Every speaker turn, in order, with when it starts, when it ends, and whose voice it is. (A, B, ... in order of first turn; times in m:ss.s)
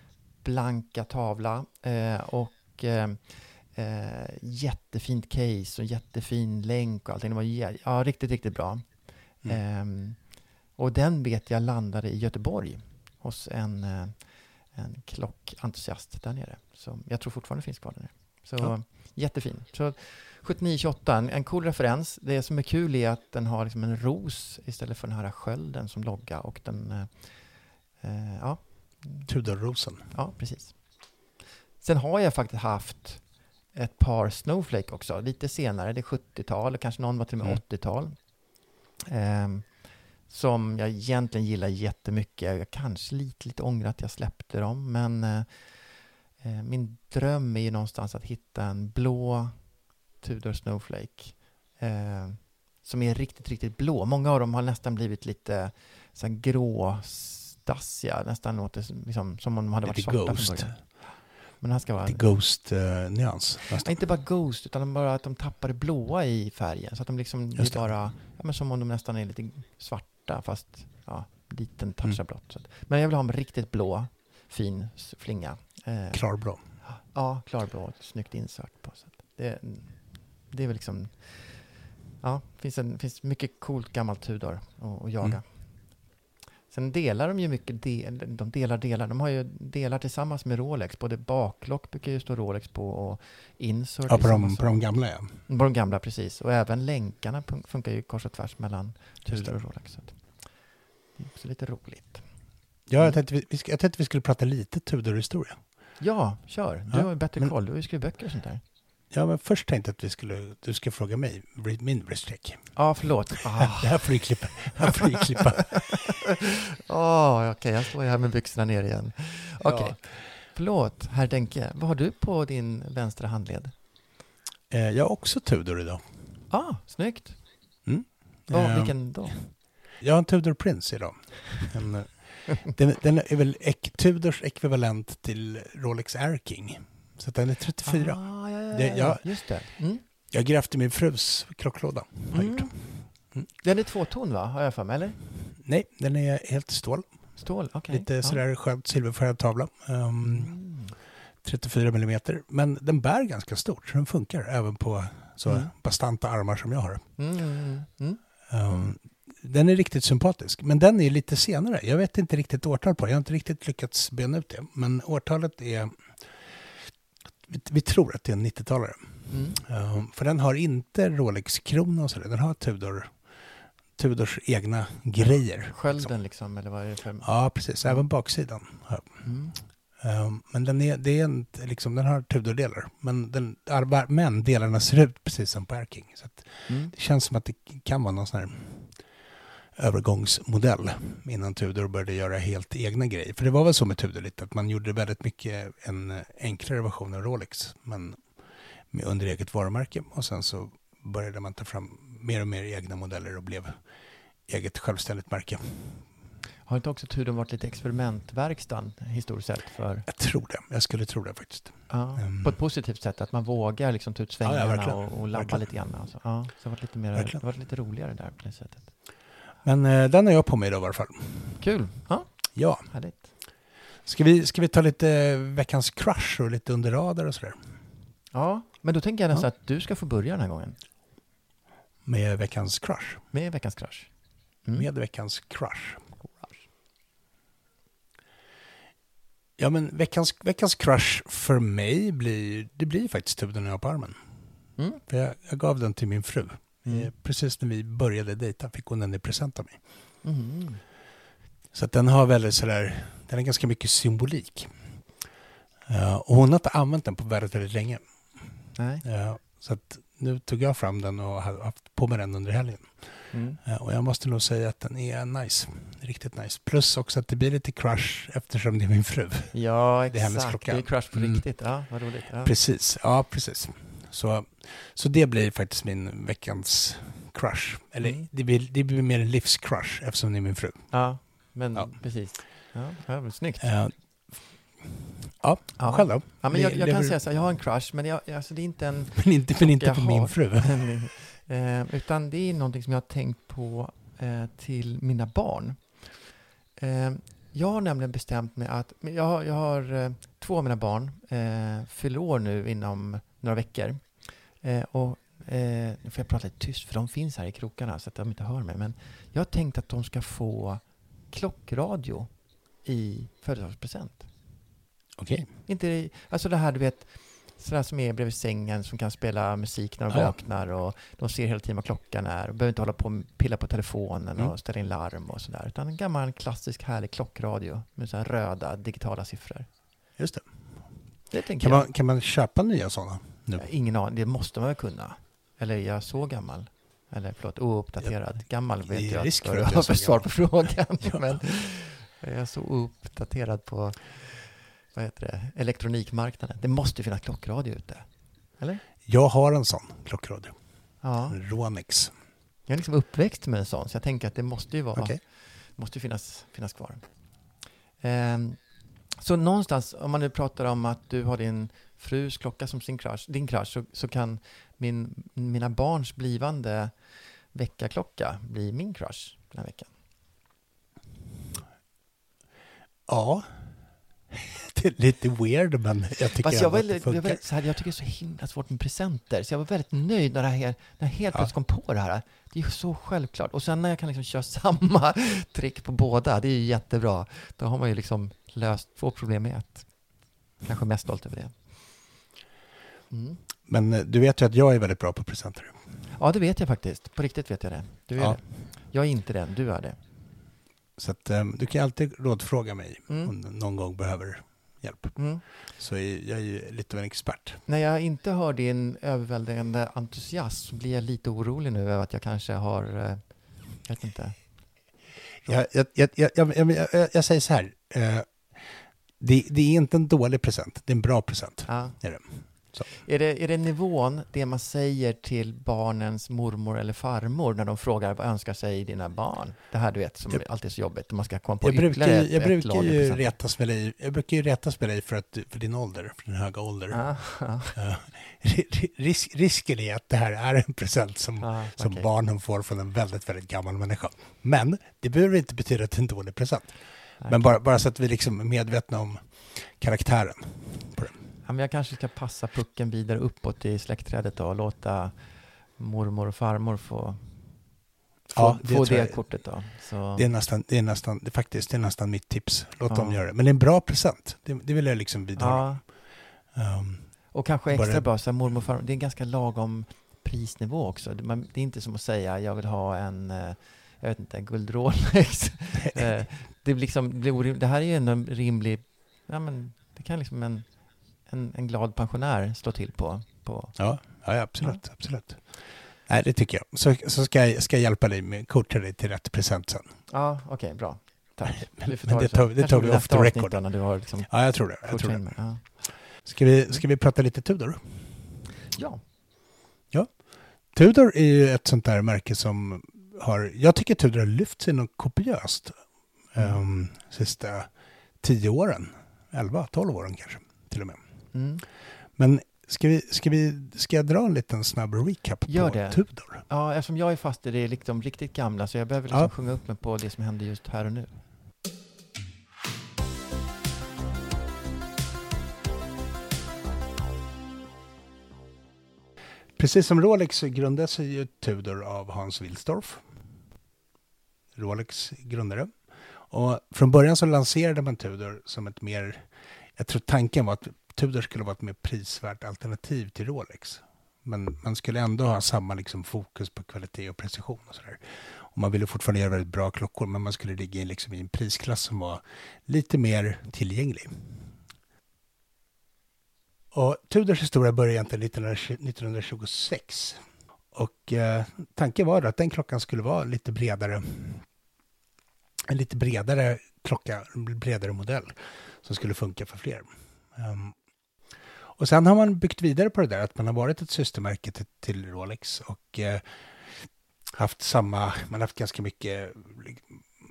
0:00.4-0:29.3 A
0:29.3-0:30.1 B
0:30.0-0:31.2 A
0:31.8-1:02.3 A
0:59.8-1:01.1 B
1:02.0-1:04.0 B
1:03.8-1:26.2 A
1:07.6-1:08.0 B
1:16.1-1:16.6 B
1:26.7-1:40.6 A
1:34.1-1:35.4 B
1:39.2-1:39.6 B
1:41.2-1:42.5 A
1:42.9-1:45.6 B
1:46.0-1:48.6 A
1:46.9-1:47.5 B
1:49.1-1:56.2 B
1:52.8-1:54.9 A
1:55.6-1:56.0 A
1:56.9-2:03.8 A
1:59.6-2:00.2 B
2:04.7-2:06.2 B
2:06.5-2:07.4 A
2:07.8-2:23.5 B
2:08.5-2:09.4 A
2:17.8-2:20.0 A
2:22.3-2:25.2 A
2:25.6-2:30.6 B
2:27.4-2:28.4 A
2:30.2-2:31.0 A
2:31.4-2:37.1 B
2:37.2-2:38.2 A
2:38.5-2:46.9 B
2:47.5-2:56.2 B
2:49.3-2:49.6 A
2:55.2-2:58.4 A
2:57.2-3:09.2 B
2:59.2-2:59.6 A
3:06.7-3:06.9 A
3:09.8-3:18.4 B
3:18.9-3:23.9 B
3:24.5-3:26.2 B
3:26.7-3:30.1 A
3:30.1-3:32.6 B
3:31.9-3:38.9 A
3:34.4-3:36.2 B
3:37.1-3:37.4 B
3:39.6-3:41.7 B
3:41.6-3:43.3 A
3:42.6-3:43.2 B
3:44.0-3:47.8 B
3:48.3-3:50.8 A
3:52.0-3:53.2 B
3:53.3-3:54.1 A
3:54.8-3:56.0 B
3:56.2-3:56.7 A
3:59.6-4:04.3 B
4:04.8-4:05.0 A
4:05.1-4:09.8 B
4:06.8-4:07.1 A
4:10.2-4:10.8 A
4:11.7-4:15.1 B
4:15.9-4:31.5 B
4:18.8-4:19.0 A
4:23.3-4:23.6 A
4:29.5-4:32.5 A
4:32.4-4:42.0 B
4:38.0-4:38.3 A
4:40.9-4:43.7 A
4:43.6-4:47.2 B
4:45.8-4:56.2 A
4:49.2-4:51.0 B
4:56.8-5:14.3 A
5:15.2-5:15.6 B
5:15.7-5:29.7 A
5:20.1-5:20.4 B
5:30.2-5:33.7 B
5:31.3-5:31.9 A
5:33.6-5:48.8 A
5:38.0-5:41.4 B
5:49.0-5:52.1 B
5:51.0-5:51.4 A
5:52.7-5:57.1 A
5:55.0-5:55.2 B
5:58.0-6:09.9 A
6:13.1-6:17.4 B
6:16.4-6:32.1 A
6:33.1-6:33.4 A
6:33.6-6:35.8 B
6:36.2-6:40.0 A
6:38.2-6:38.4 B
6:41.0-6:47.6 B
6:43.1-6:43.3 A
6:45.2-6:45.4 A
6:47.7-6:54.7 A
6:55.4-7:02.9 B
7:01.7-7:13.3 A
7:11.6-7:31.2 B
7:16.9-7:17.8 A
7:21.4-7:22.1 A
7:27.2-7:27.6 A
7:31.4-7:37.7 A
7:38.3-7:48.1 B
7:38.4-7:40.3 A
7:42.9-7:43.2 A
7:45.4-7:45.8 A
7:47.3-8:04.8 A
7:55.8-7:56.1 B
8:03.8-8:10.0 B
8:10.1-8:16.0 A
8:11.8-8:18.3 B
8:18.7-8:19.0 A
8:19.9-8:25.8 B
8:26.3-8:31.0 B
8:31.3-8:31.6 A
8:32.2-8:36.4 B
8:35.5-8:41.2 A
8:39.1-8:39.3 B
8:49.6-8:53.0 B
8:54.6-9:14.6 B
9:16.7-9:20.2 B
9:20.7-9:24.5 B
9:25.7-9:30.8 B
9:31.8-9:40.0 B